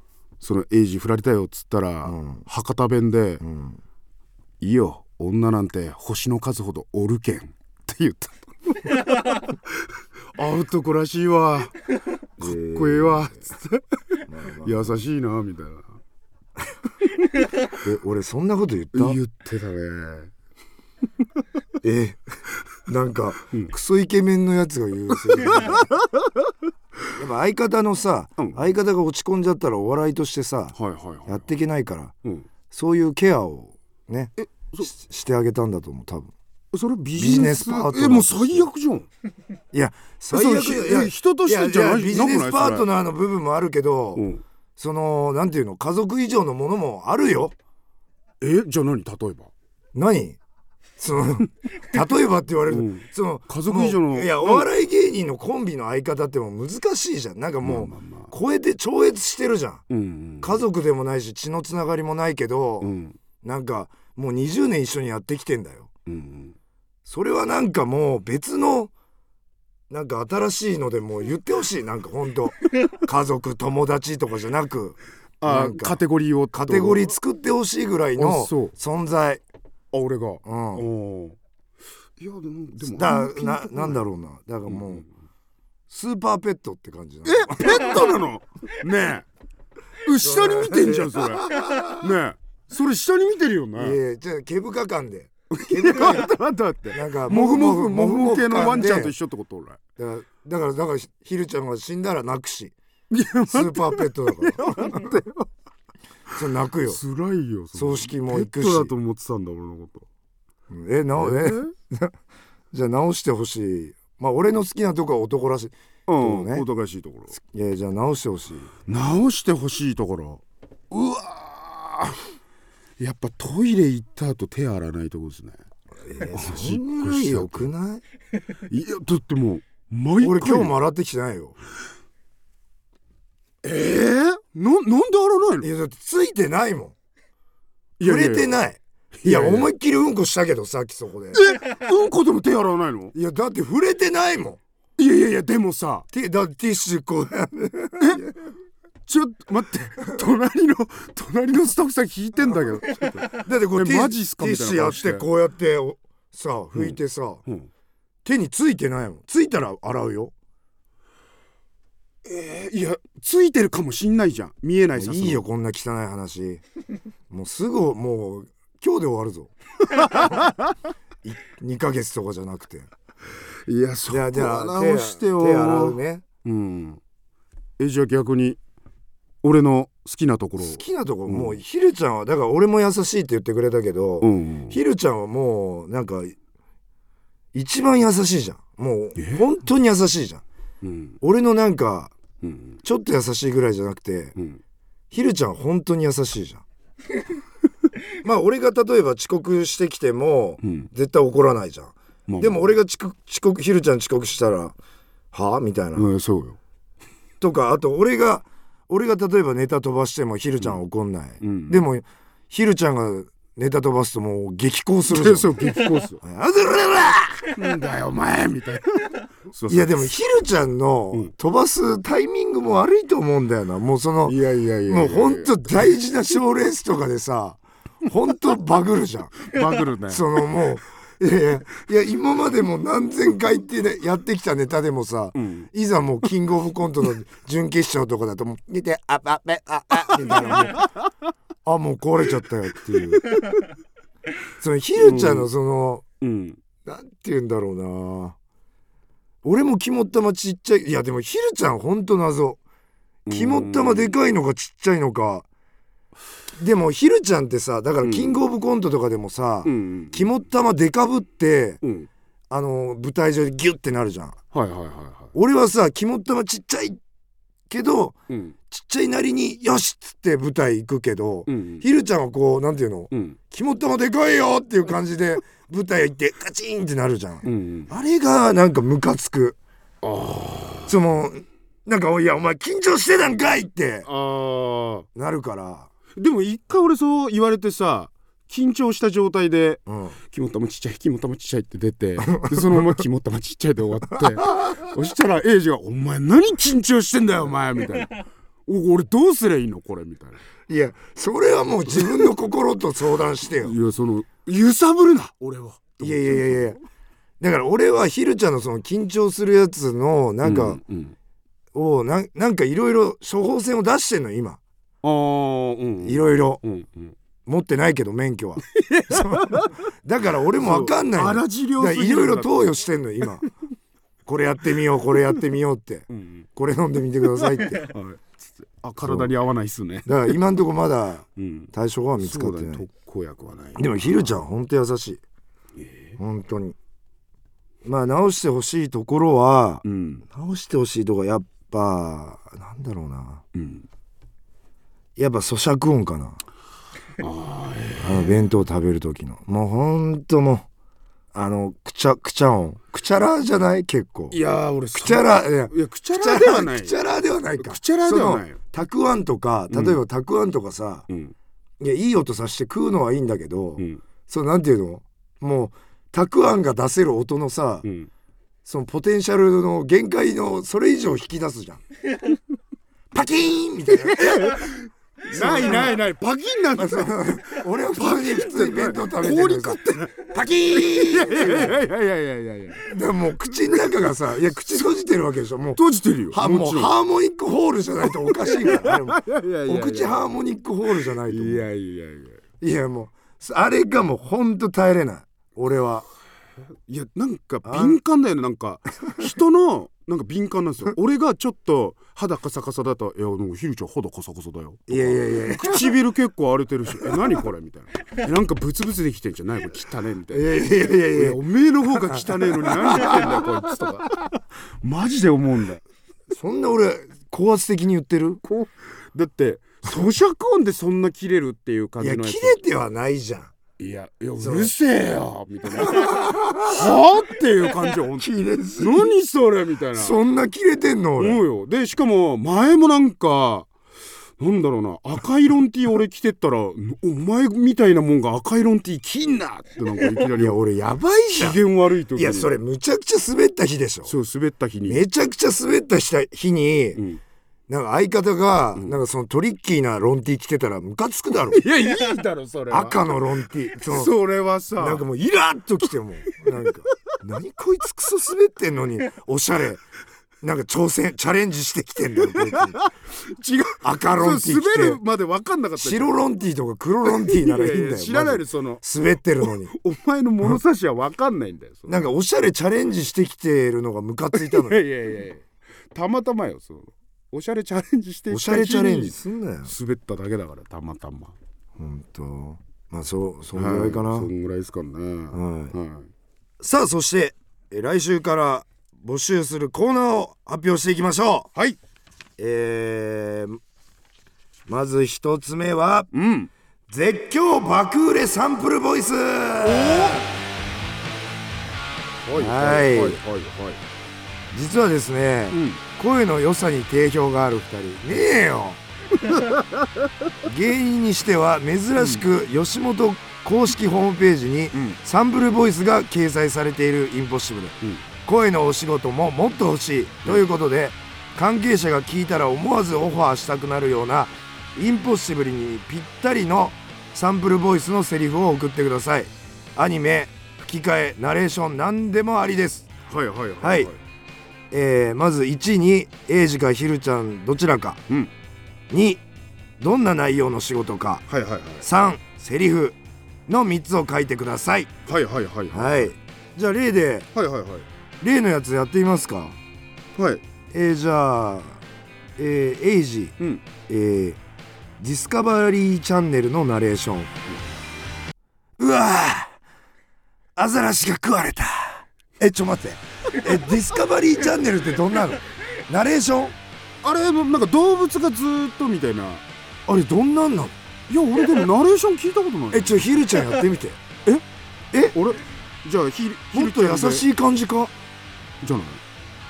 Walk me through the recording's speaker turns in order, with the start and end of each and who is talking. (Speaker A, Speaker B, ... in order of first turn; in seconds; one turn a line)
Speaker A: 0.4-3.4
Speaker B: 2.0-2.4
Speaker B: 3.4-3.8
Speaker A: 4.6-9.4
Speaker A: 10.3-11.8
Speaker B: 12.4-13.4
Speaker A: 12.4-13.8
Speaker B: 14.3-15.0
Speaker A: 14.6-15.9
Speaker B: 17.7-19.2
Speaker A: 18.9-20.3
Speaker B: 21.8-22.2
Speaker B: 22.9-25.9
Speaker A: 25.4-26.2
Speaker B: 27.2-30.8
Speaker A: 28.4-28.7
Speaker A: 30.8-31.5
Speaker B: 31.3-32.1
Speaker B: 32.7-36.3
Speaker A: 34.4-34.9
Speaker A: 36.7-39.1
Speaker B: 37.1-38.7
Speaker B: 39.7-47.5
Speaker A: 40.3-42.9
Speaker A: 44.2-44.4
Speaker A: 48.4-49.5
Speaker B: 50.0-50.4
Speaker B: 51.0-59.8
Speaker A: 52.7-54.7
Speaker A: 57.6-58.3
Speaker A: 59.9-60.6
Speaker B: 60.4-62.9
Speaker A: 62.8-63.2
Speaker B: 63.4-65.9
Speaker A: 66.1-66.6
Speaker B: 67.1-68.9
Speaker B: 69.9-76.0
Speaker A: 75.4-77.1
Speaker B: 76.5-79.4
Speaker A: 78.2-78.7
Speaker A: 79.9-81.4
Speaker B: 80.5-80.9
Speaker A: 82.2-84.0
Speaker B: 82.8-85.0
Speaker A: 84.7-85.1
Speaker B: 85.9-88.1
Speaker A: 87.2-89.3
Speaker A: 90.0-94.0
Speaker B: 90.2-92.1
Speaker B: 93.8-96.3
Speaker A: 95.5-99.8
Speaker B: 96.9-99.2
Speaker B: 100.0-102.7
Speaker A: 103.1-105.5
Speaker B: 103.5-105.2
Speaker B: 106.3-107.0
Speaker A: 106.8-110.1
Speaker B: 107.7-108.9
Speaker B: 110.7-112.1
Speaker A: 111.2-111.7
Speaker B: 112.7-116.7
Speaker A: 116.1-117.3
Speaker B: 117.4-118.7
Speaker A: 118.9-122.2
Speaker A: 123.0-125.6
Speaker B: 126.0-128.0
Speaker A: 126.2-127.7
Speaker A: 128.7-130.8
Speaker B: 130.2-131.6
Speaker A: 133.6-135.7
Speaker B: 135.6-136.9
Speaker A: 138.0-138.6
Speaker B: 138.0-141.4
Speaker A: 139.2-139.7
Speaker A: 141.3-143.1
Speaker B: 143.1-144.6
Speaker A: 145.0-146.1
Speaker B: 146.1-148.5
Speaker A: 149.1-155.3
Speaker B: 153.3-157.4
Speaker A: 156.8-157.7
Speaker B: 158.2-160.3
Speaker A: 162.2-165.4
Speaker B: 165.0-166.6
Speaker B: 167.3-169.5
Speaker A: 169.9-170.7
Speaker B: 171.2-172.9
Speaker A: 173.7-177.0
Speaker B: 174.1-176.2
Speaker A: 177.8-178.6
Speaker A: 179.4-181.6
Speaker B: 180.6-186.4
Speaker A: 184.2-184.8
Speaker B: 187.5-190.4
Speaker A: 189.2-189.5
Speaker A: 190.8-191.2
Speaker B: 191.2-192.1
Speaker A: 192.4-192.8
Speaker B: 192.8-194.3
Speaker A: 194.4-194.6
Speaker B: 195.1-196.6
Speaker B: 198.2-204.8
Speaker A: 200.6-200.9
Speaker A: 202.3-202.7
Speaker B: 205.3-206.1
Speaker A: 205.9-206.6
Speaker B: 207.4-215.7
Speaker A: 211.4-211.8
Speaker A: 215.1-216.2
Speaker B: 216.2-217.6
Speaker A: 217.5-220.1
Speaker B: 219.7-229.5
Speaker A: 224.2-225.9
Speaker A: 229.4-230.3
Speaker B: 230.1-240.9
Speaker A: 235.3-235.7
Speaker A: 240.3-241.0
Speaker B: 241.7-243.4
Speaker B: 244.6-246.0
Speaker A: 245.0-245.5
Speaker A: 246.2-246.6
Speaker B: 246.8-248.4
Speaker B: 249.4-252.6
Speaker A: 253.3-254.2
Speaker B: 253.3-255.5
Speaker B: 256.6-261.8
Speaker A: 258.0-258.4
Speaker A: 259.6-260.3
Speaker A: 261.8-262.1
Speaker B: 262.5-264.4
Speaker A: 264.5-265.4
Speaker B: 265.4-267.0
Speaker B: 267.7-268.2
Speaker A: 268.3-268.6
Speaker B: 268.7-279.6
Speaker A: 271.5-271.8
Speaker A: 273.1-273.4
Speaker A: 277.4-277.9
Speaker A: 280.0-281.0
Speaker B: 280.9-284.1
Speaker A: 284.1-285.1
Speaker B: 285.1-285.9
Speaker A: 286.2-300.4
Speaker B: 289.9-290.2
Speaker B: 292.3-293.0
Speaker B: 294.2-294.9
Speaker B: 300.7-303.8
Speaker A: 303.6-306.8
Speaker B: 306.0-306.8
Speaker B: 307.4-310.8
Speaker A: 310.4-311.1
Speaker B: 311.7-314.6
Speaker A: 315.0-317.2
Speaker B: 316.0-316.6
Speaker B: 317.5-323.5
Speaker A: 318.7-319.8
Speaker A: 320.6-322.8
Speaker B: 324.3-327.9
Speaker A: 326.1-326.5
Speaker A: 327.8-330.3
Speaker B: 329.0-329.3
Speaker B: 330.1-332.9
Speaker A: 331.4-334.3
Speaker B: 333.8-335.2
Speaker A: 335.8-336.2
Speaker B: 336.2-336.8
Speaker B: 337.8-343.4
Speaker A: 339.8-340.2
Speaker A: 343.5-343.9
Speaker B: 345.2-346.4
Speaker A: 347.2-348.4
Speaker B: 348.0-350.7
Speaker B: 351.3-354.4
Speaker A: 354.3-357.0
Speaker B: 354.9-361.1
Speaker A: 357.6-358.6
Speaker A: 359.7-360.0
Speaker A: 361.1-361.3
Speaker B: 361.8-367.9
Speaker A: 367.8-368.1
Speaker B: 368.6-371.8
Speaker B: 373.1-374.6
Speaker A: 374.0-382.9
Speaker B: 375.3-376.0
Speaker B: 376.8-381.8
Speaker B: 382.9-391.7
Speaker A: 385.8-386.9
Speaker A: 388.4-390.3
Speaker A: 391.2-392.4
Speaker B: 392.6-396.1
Speaker A: 396.9-410.6
Speaker B: 397.6-398.0
Speaker B: 404.9-406.0
Speaker B: 410.3-413.5
Speaker A: 411.1-415.8
Speaker B: 416.3-418.4
Speaker A: 418.4-422.6
Speaker B: 422.0-423.5
Speaker A: 423.8-430.2
Speaker B: 424.4-424.7
Speaker B: 425.8-426.9
Speaker B: 428.2-429.1
Speaker B: 429.9-431.4
Speaker A: 431.2-433.7
Speaker A: 434.4-440.6
Speaker B: 440.1-441.6
Speaker A: 441.4-442.6
Speaker B: 442.1-444.1
Speaker A: 444.1-445.0
Speaker B: 444.9-447.0
Speaker A: 447.0-447.2
Speaker B: 447.7-451.7
Speaker A: 451.5-453.2
Speaker B: 452.7-454.1
Speaker A: 453.7-455.1
Speaker B: 454.8-459.8
Speaker B: 460.4-462.8
Speaker A: 462.4-466.2
Speaker B: 463.8-465.0
Speaker B: 465.8-469.7
Speaker A: 467.1-468.8
Speaker A: 469.4-472.1
Speaker B: 471.9-474.8
Speaker A: 474.3-481.4
Speaker B: 478.3-479.7
Speaker B: 481.8-484.3
Speaker A: 483.6-486.1
Speaker B: 485.3-485.7
Speaker B: 486.6-491.5
Speaker B: 492.4-493.6
Speaker B: 494.7-496.1
Speaker A: 496.1-496.5
Speaker B: 496.9-500.3
Speaker A: 499.6-500.3
Speaker A: 502.3-503.8
Speaker B: 502.4-503.2
Speaker B: 504.5-508.8
Speaker A: 505.5-505.8
Speaker A: 509.3-509.9
Speaker B: 510.4-532.9
Speaker A: 512.0-512.2
Speaker A: 514.7-515.0
Speaker A: 533.1-534.0
Speaker B: 533.6-533.9
Speaker B: 534.7-538.0
Speaker B: 538.9-539.2
Speaker B: 539.8-541.2
Speaker A: 541.3-541.9
Speaker B: 541.8-544.9
Speaker A: 545.1-546.1
Speaker B: 545.7-547.3
Speaker A: 547.4-547.9
Speaker B: 548.2-549.6
Speaker A: 550.1-550.4
Speaker B: 550.7-551.8
Speaker B: 552.4-553.4
Speaker A: 553.4-553.6
Speaker B: 553.9-554.4
Speaker B: 555.0-557.3
Speaker B: 558.8-559.6
Speaker B: 560.6-566.6
Speaker A: 567.0-569.4
Speaker B: 569.9-570.8
Speaker A: 571.1-573.1
Speaker B: 572.7-574.0
Speaker A: 575.1-577.3
Speaker B: 576.5-577.9
Speaker A: 578.6-579.0